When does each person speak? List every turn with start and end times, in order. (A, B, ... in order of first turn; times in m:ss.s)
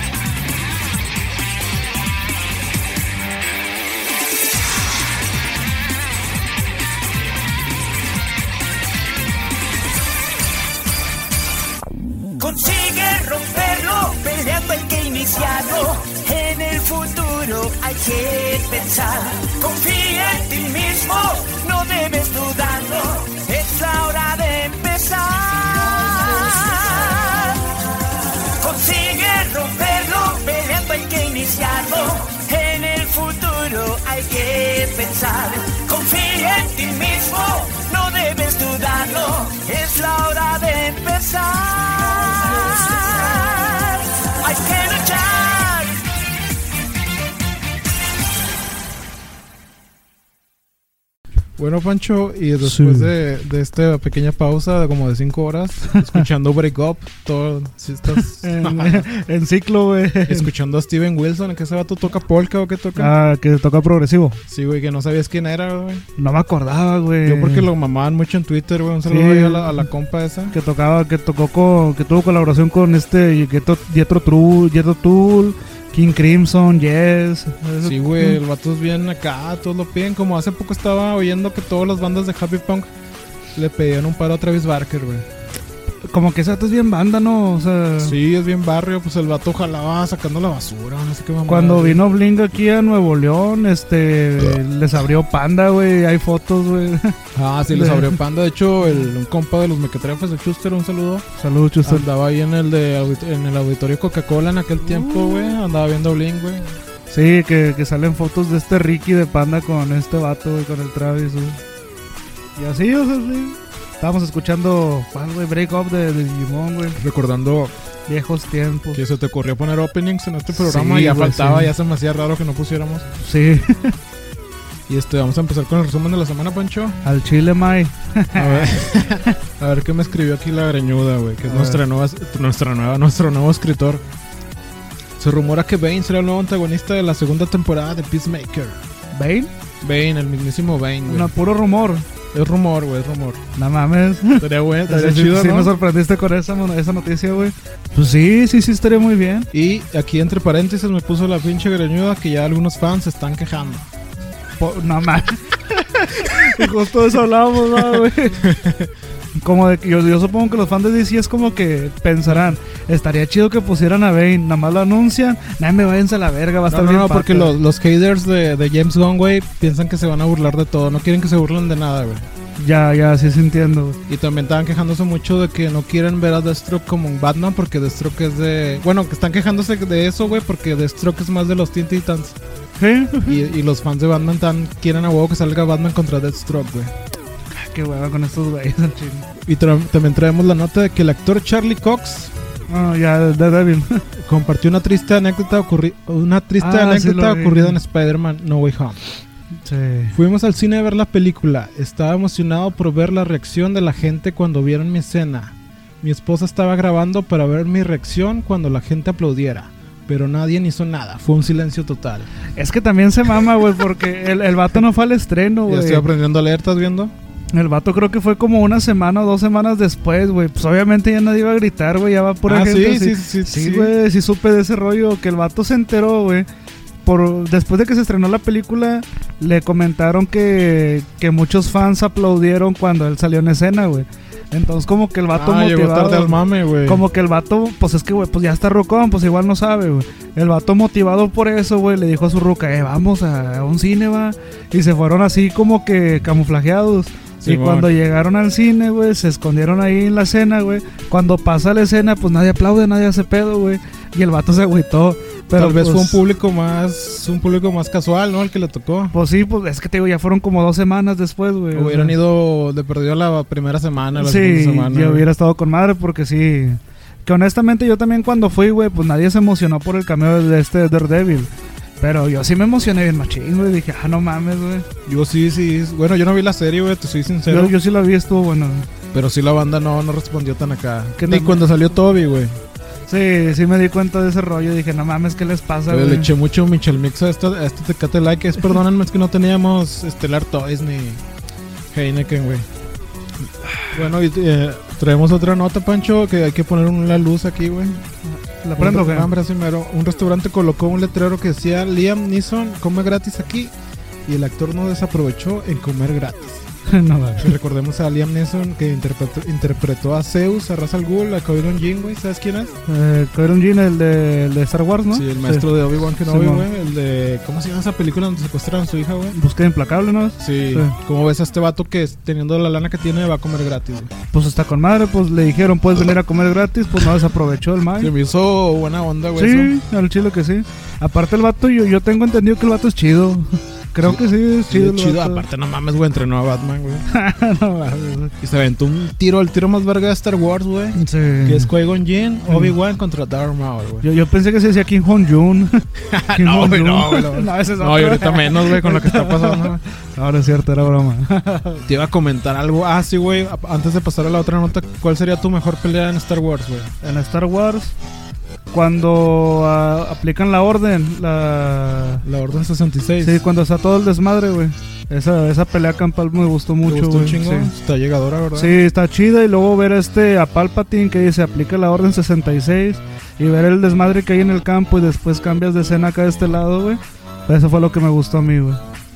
0:12.4-0:27.7 A
0:28.6-0:46.0 A
0:51.6-0:59.1 B
0:52.6-0:53.1 C
0:55.9-0:56.2 C
0:58.1-1:00.5 C
1:00.3-1:03.1 B
1:03.0-1:04.4 C
1:04.5-1:06.0 B
1:06.2-1:07.7 C
1:07.2-1:10.6 B
1:09.1-1:09.9 C
1:10.5-1:18.4 C
1:17.8-1:22.9 B
1:23.6-1:25.3 B
1:26.1-1:28.2 C
1:28.0-1:32.0 B
1:31.5-1:37.2 C
1:37.3-1:41.3 B
1:37.7-1:38.2 C
1:41.4-1:42.1 C
1:41.8-1:46.7 B
1:44.8-1:45.6 C
1:47.1-1:51.6 C
1:52.6-1:57.0 C
1:57.0-1:57.7 B
1:58.1-1:59.0 C
1:58.9-2:03.1 B
2:00.5-2:01.7 C
2:03.2-2:04.0 C
2:04.9-2:07.0 B
2:07.0-2:09.3 C
2:08.4-2:14.0 B
2:11.4-2:11.8 C
2:15.2-2:18.8 B
2:19.1-2:19.5 C
2:19.8-2:21.3 B
2:21.1-2:22.0 C
2:22.3-2:23.4 B
2:23.6-2:29.5 C
2:24.4-2:25.7 B
2:29.5-2:33.9 B
2:34.6-2:38.5 C
2:37.8-2:38.9 B
2:39.4-2:47.6 C
2:46.7-2:52.3 B
2:52.6-2:54.0 C
2:54.1-3:02.4 B
3:02.8-3:03.4 C
3:03.3-3:07.0 B
3:07.5-3:09.3 C
3:09.4-3:12.4 B
3:12.7-3:14.0 C
3:14.2-3:19.1 B
3:16.6-3:17.8 C
3:19.6-3:20.2 C
3:20.1-3:32.3 B
3:32.6-3:36.1 C
3:35.7-3:37.1 B
3:37.5-3:46.5 C
3:42.5-3:44.0 B
3:47.0-4:16.2 C
3:55.3-3:57.0 B
4:07.4-4:07.9 B
4:15.6-4:19.1 B
4:19.1-4:22.2 C
4:21.7-4:25.3 B
4:24.2-4:34.9 C
4:35.1-4:37.8 B
4:37.5-4:38.9 C
4:39.1-4:42.6 B
4:41.2-4:41.6 C
4:43.1-4:46.3 C
4:45.9-4:51.2 B
4:51.9-4:52.7 B
4:53.9-4:58.0 B
4:58.3-4:59.3 C
4:58.8-5:03.7 B
5:04.3-5:06.7 B
5:06.9-5:07.5 C
5:07.4-5:12.8 B
5:12.9-5:15.7 C
5:15.1-5:19.4 B
5:16.2-5:16.7 C
5:19.3-5:21.0 C
5:20.4-5:24.1 B
5:24.3-5:28.1 C
5:28.0-5:29.7 B
5:29.4-5:35.4 C
5:34.0-5:37.0 B
5:37.1-5:38.3 C
5:38.4-5:44.1 B
5:41.0-5:41.7 C
5:42.5-5:42.7 C
5:44.0-5:51.8 C
5:46.0-5:49.8 B
5:51.8-5:56.9 B
5:57.0-5:58.0 C
5:58.7-6:02.2 C
6:02.2-6:03.4 B
6:03.2-6:07.7 C
6:06.8-6:08.8 B
6:08.6-6:18.8 C